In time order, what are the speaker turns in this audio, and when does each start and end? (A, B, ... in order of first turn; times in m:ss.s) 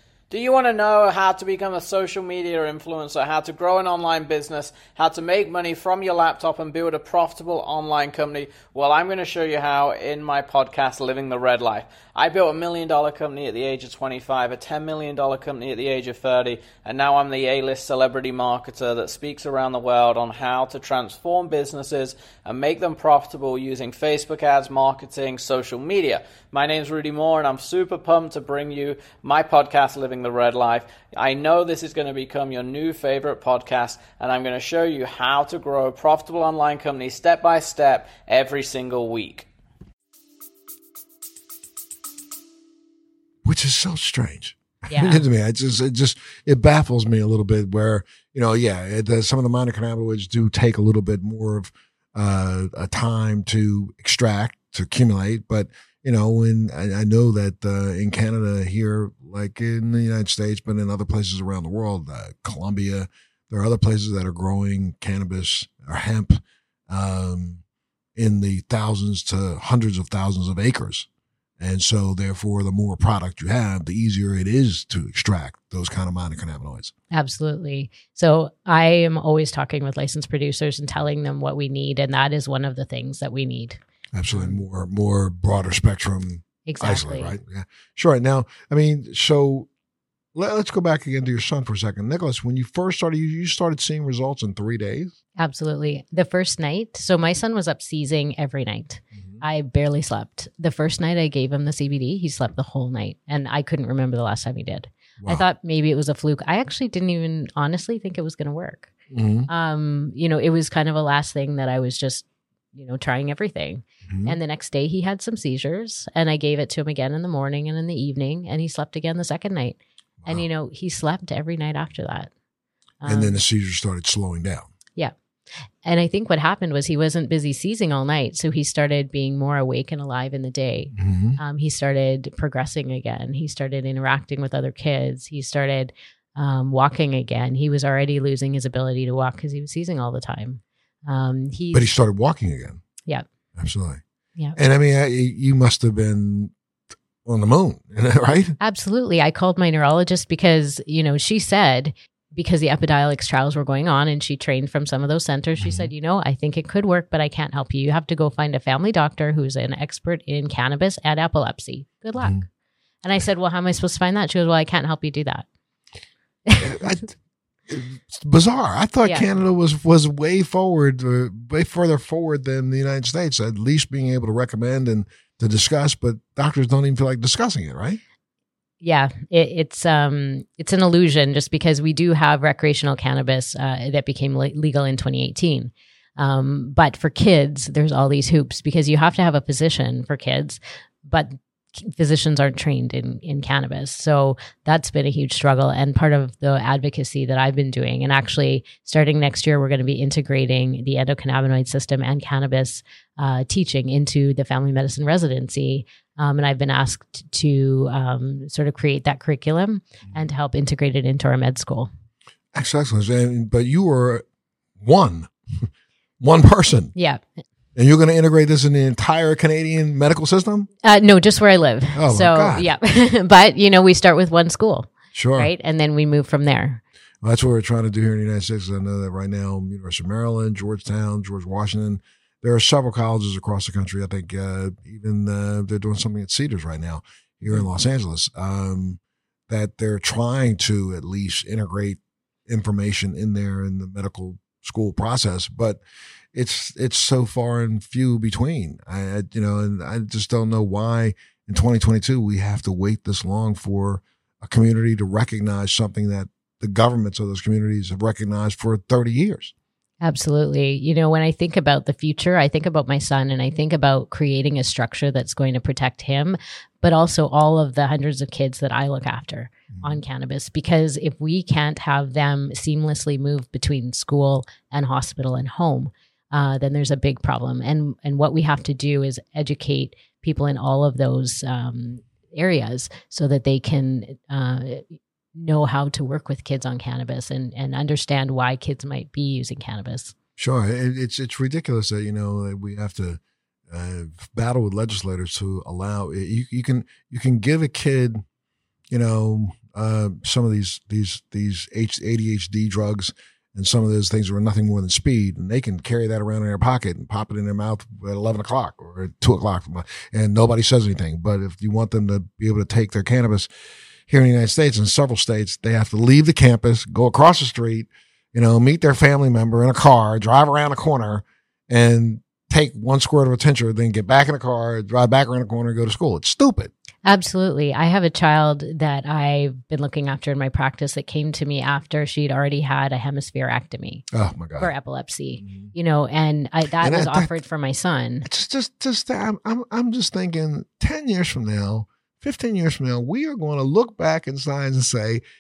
0:00.3-0:39.5 A
0:43.4-1:07.6 B
0:44.9-0:45.2 C
1:08.2-1:11.1 B
1:11.6-1:16.9 B
1:17.1-1:24.5 C
1:24.1-1:29.7 B
1:26.6-1:27.3 C
1:30.3-1:35.1 B
1:35.4-1:48.9 C
1:39.1-1:39.4 B
1:45.2-1:45.4 B
1:49.1-1:49.5 B
1:49.5-2:02.3 C
1:54.0-1:54.4 B
2:03.0-2:03.4 C
2:03.0-2:04.7 B
2:05.8-2:21.9 C
2:10.9-2:11.4 B
2:21.7-2:22.8 B
2:23.6-2:24.0 B
2:24.6-2:26.5 B
2:27.2-2:28.6 B
2:28.6-2:42.4 C
2:35.6-2:35.9 B
2:42.2-2:42.4 B
2:43.0-2:45.4 C
2:46.4-2:46.8 C
2:46.6-2:47.1 B
2:47.7-2:58.0 B
2:58.8-3:31.9 C
3:32.5-3:34.2 B
3:34.8-3:35.7 B
3:36.2-3:36.9 B
3:36.9-3:37.2 C
3:37.7-3:40.7 B
3:40.8-3:46.8 C
3:42.0-3:42.7 B
3:45.1-3:45.5 B
3:47.2-4:05.8 B
4:06.3-4:19.5 B
4:20.0-4:50.1 C
4:29.7-4:30.0 B
4:50.4-4:58.2 B
4:58.9-5:13.5 B
5:14.1-5:26.7 B
5:27.0-5:34.0 C
5:34.1-5:34.7 B
5:34.6-5:38.3 C
5:35.4-5:35.7 B
5:36.8-5:37.3 B
5:38.2-5:45.2 B